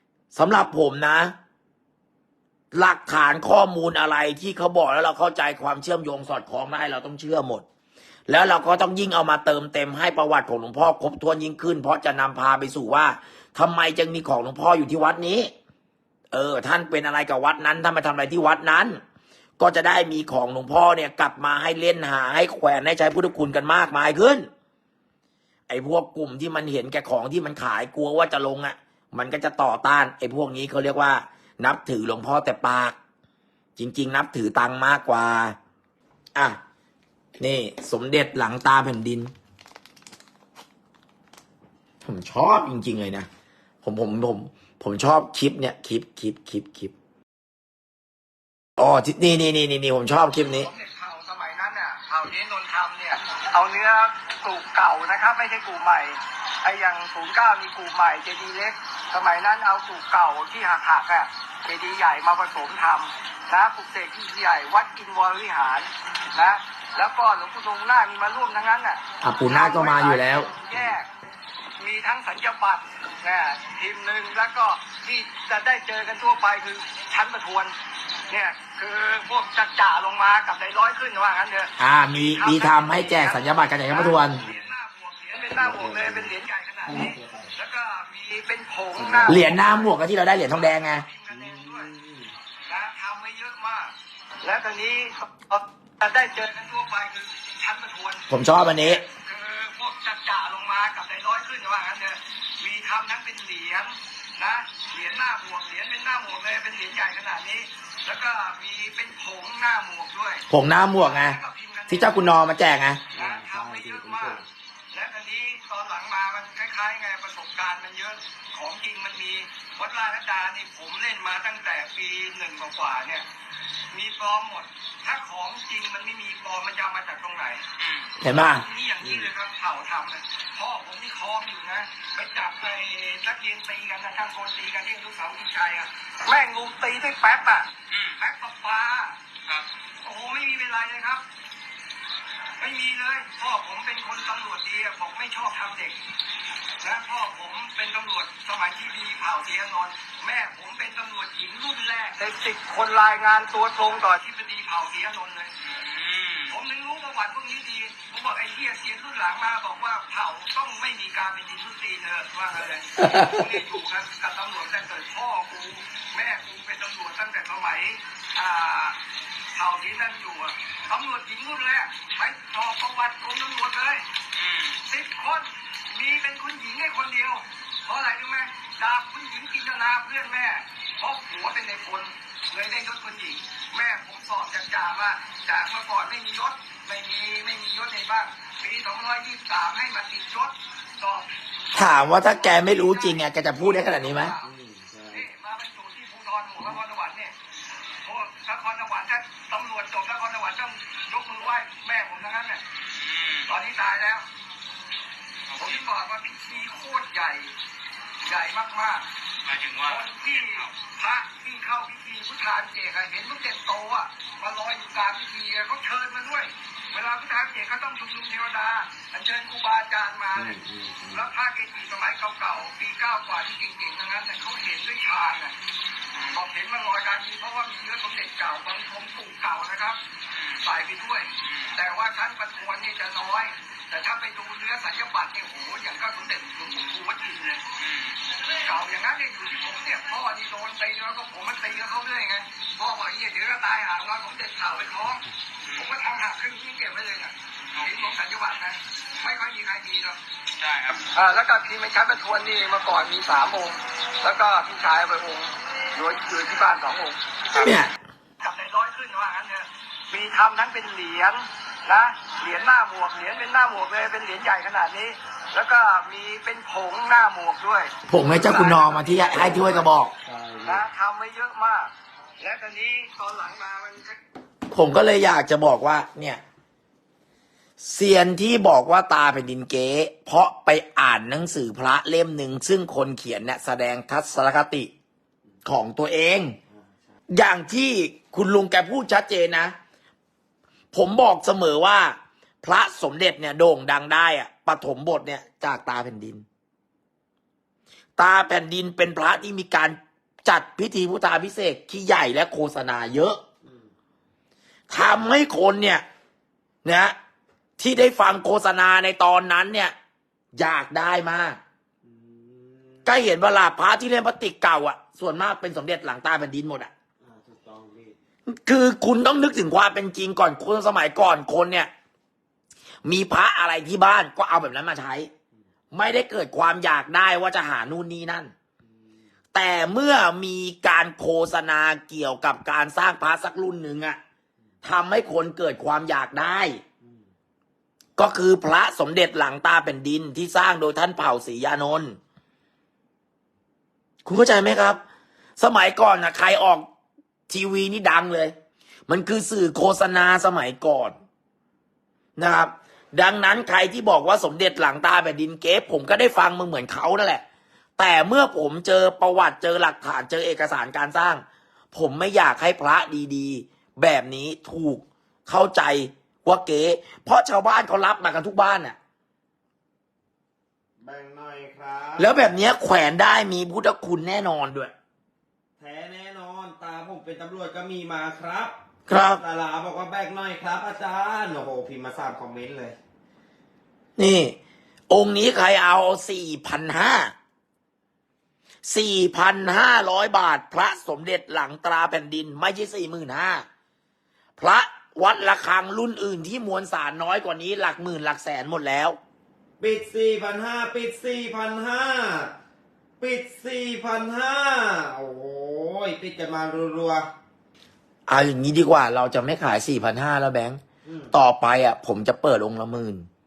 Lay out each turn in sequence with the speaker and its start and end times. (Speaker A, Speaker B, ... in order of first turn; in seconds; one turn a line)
Speaker A: 0.3-1.4
Speaker A: 2.7-7.6
Speaker A: 8.3-15.5
Speaker A: 16.3-19.0
Speaker A: 19.6-24.5
Speaker A: 25.7-33.0
Speaker A: 33.8-35.6
Speaker A: 37.4-39.3
Speaker A: 42.0-43.3
Speaker A: 43.8-46.9
Speaker A: 48.8-50.7
Speaker B: 50.6-71.1
Speaker A: 69.2-70.5
Speaker B: 71.8-77.7
Speaker B: 78.3-90.0
Speaker A: 81.8-84.4
Speaker C: 84.4-84.7
Speaker C: 85.6-86.3
Speaker C: 86.9-87.5
Speaker C: 89.0-89.4
Speaker A: 89.2-91.0
Speaker B: 90.5-91.9
Speaker C: 91.3-92.4
Speaker B: 92.7-98.3
Speaker A: 98.3-99.0
Speaker B: 98.8-112.3
Speaker A: 110.5-111.4
Speaker A: 111.9-113.0
Speaker B: 113.1-123.2
Speaker C: 113.1-114.5
Speaker B: 123.9-127.6
Speaker D: 127.8-128.1
Speaker A: 128.2-128.6
Speaker B: 128.3-139.2
Speaker C: 129.0-129.3
Speaker D: 137.9-138.2
Speaker B: 140.0-141.2
Speaker B: 142.6-146.0
Speaker B: 146.8-155.5
Speaker D: 155.6-156.6
Speaker B: 156.5-168.9
Speaker A: 163.0-163.4
Speaker B: 169.5-174.0
Speaker D: 174.3-174.8
Speaker B: 174.8-194.5
Speaker A: 191.7-194.3
Speaker C: 194.4-195.3
Speaker B: 195.1-197.3
Speaker B: 198.0-202.6
Speaker D: 202.7-203.5
Speaker B: 203.4-204.2
Speaker D: 205.5-205.9
Speaker B: 205.6-207.5
Speaker B: 208.2-209.1
Speaker D: 209.4-210.7
Speaker B: 209.8-220.6
Speaker C: 220.3-221.3
Speaker B: 221.1-225.6
Speaker D: 226.1-226.4
Speaker B: 226.3-230.0
Speaker D: 230.3-230.7
Speaker B: 230.6-237.7
Speaker D: 231.4-231.8
Speaker D: 237.8-238.2
Speaker B: 238.4-250.2
Speaker D: 245.6-245.9
Speaker D: 250.6-251.0
Speaker B: 251.1-257.7
Speaker A: 257.6-257.9
Speaker B: 258.4-269.9
Speaker A: 268.1-270.1
Speaker C: 270.2-270.9
Speaker B: 270.6-274.2
Speaker A: 274.7-276.4
Speaker A: 277.8-284.9
Speaker A: 285.6-286.6
Speaker C: 286.7-287.2
Speaker A: 287.3-289.7
Speaker A: 290.9-296.4
Speaker A: 298.2-303.4
Speaker C: 303.6-303.9
Speaker A: 304.9-306.0
Speaker A: 306.8-307.1
Speaker A: 307.8-309.9
Speaker A: 310.6-311.6
Speaker C: 312.0-313.1
Speaker A: 313.0-316.9
Speaker C: 317.2-318.2
Speaker A: 318.5-321.9
Speaker A: 323.0-325.3
Speaker A: 325.9-328.5
Speaker C: 328.8-329.3
Speaker A: 329.5-334.2
Speaker A: 334.8-336.8
Speaker C: 337.0-337.3
Speaker A: 338.2-342.2
Speaker A: 344.2-345.0
Speaker A: 345.6-346.9
Speaker A: 347.5-348.5
Speaker A: 349.1-351.1
Speaker A: 352.4-357.4
Speaker A: 358.0-369.0
Speaker C: 371.0-372.3
Speaker A: 372.2-374.9
Speaker C: 375.8-383.0
Speaker A: 379.1-379.4
Speaker A: 384.2-384.6
Speaker A: 385.1-387.3
Speaker A: 388.9-393.6
Speaker A: 394.6-399.2
Speaker C: 399.8-402.5
Speaker C: 403.2-407.3
Speaker A: 408.3-413.3
Speaker C: 411.0-411.3